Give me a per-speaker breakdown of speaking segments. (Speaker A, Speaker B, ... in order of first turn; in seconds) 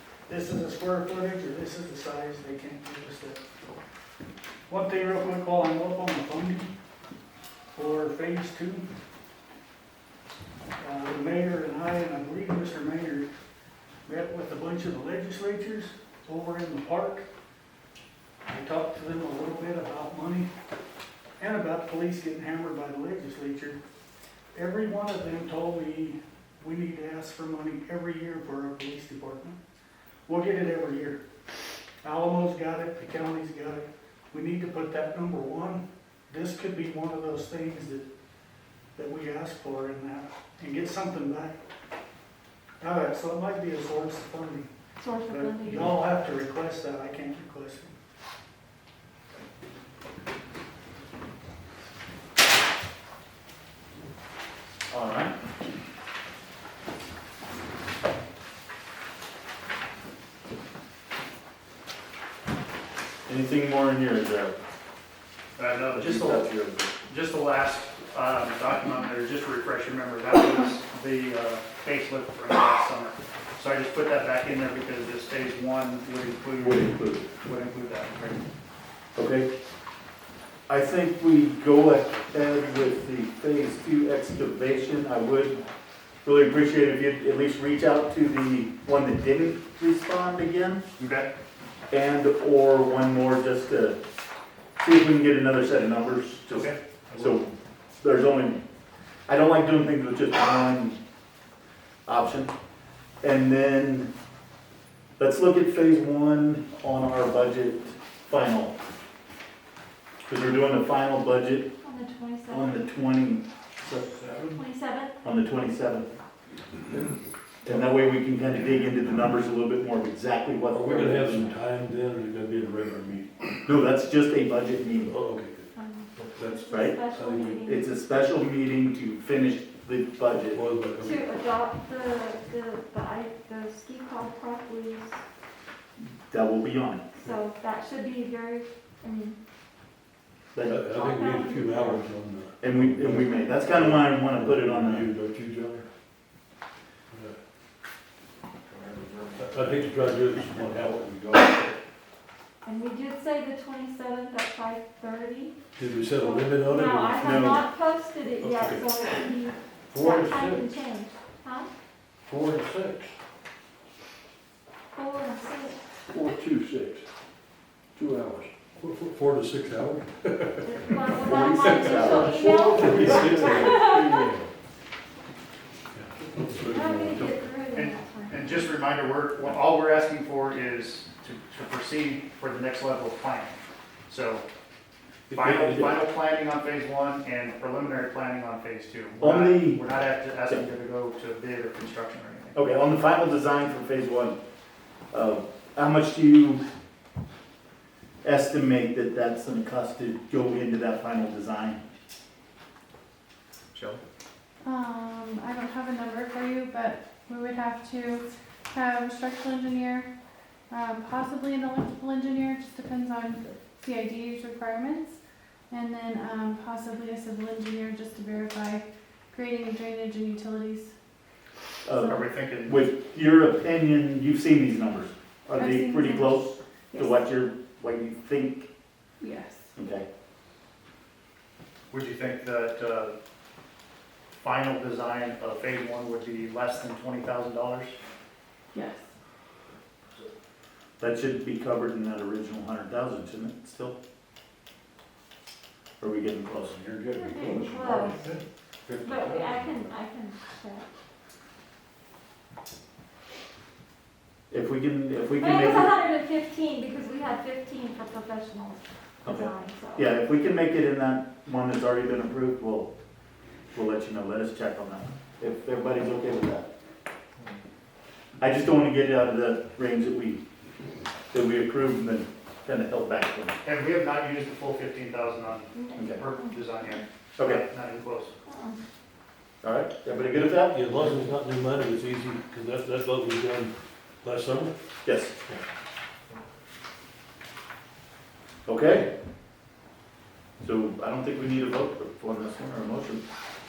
Speaker A: 0.3-3.4, 4.7-6.7, 7.8-8.8, 10.8-13.3, 14.1-17.2, 18.4-20.5, 21.4-23.8, 24.5-29.6, 30.3-31.2, 32.0-38.0, 39.0-41.6, 42.8-44.7, 45.3-48.0
Speaker B: 45.0-45.9, 111.8-112.9, 114.5-115.1, 125.7-127.9, 131.0-135.2, 137.2-139.4, 140.9-142.0, 152.6-155.6, 156.2-161.7, 164.9-165.8, 170.6-174.2, 176.7-178.7, 247.1-248.2, 249.0-250.9, 255.4-260.1, 275.7-276.6, 278.4-278.8
Speaker C: 54.9-55.3, 63.3-64.5, 65.9-66.9, 76.6-77.3, 79.2-79.5, 80.7-85.6, 86.2-90.8, 91.9-94.0, 94.8-97.5, 98.0-98.6, 99.3-101.0, 102.1-102.5, 103.2-104.1, 105.2-108.8, 110.3-111.7, 112.5-114.2, 115.2-116.1, 117.7-121.5, 123.7-125.1, 126.7-127.0, 127.6-130.6, 136.0-137.0, 142.6-145.1, 157.2-157.6, 171.2-172.4, 185.3-186.0, 189.2-189.8, 192.6-194.4, 195.1-196.6, 198.2-201.8, 221.8-228.7, 229.8-230.1, 241.0-243.9, 246.0-246.8, 254.5-255.9, 259.2-262.9, 263.7-266.7, 268.4-270.4, 271.3-273.6, 276.0-276.2, 277.4-277.6, 279.6-280.8, 285.1-285.4, 288.7-289.1, 290.6-293.2
Speaker D: 65.6-66.5, 67.1-78.4, 91.0-91.3, 96.5-97.4, 177.7-184.4, 185.3-192.6, 203.7-204.0, 222.1-222.9, 231.9-233.1, 234.4-238.0, 273.6-278.3
Speaker E: 120.7-123.6, 124.9-127.7, 130.5-131.2, 140.6-145.9, 149.4-151.8, 155.8-157.6, 158.4-158.9, 159.9-160.7, 162.2-163.1, 166.1-167.0, 168.0-170.8, 171.5-174.4, 175.9-177.5, 246.9-248.1, 280.3-284.7
Speaker F: 148.7-149.9, 166.4-166.8, 172.2-174.3, 247.4-249.7
Speaker G: 204.6-210.1, 210.7-215.2, 215.7-220.9, 221.9-222.2, 225.6-227.2, 229.2-229.7, 238.7-239.1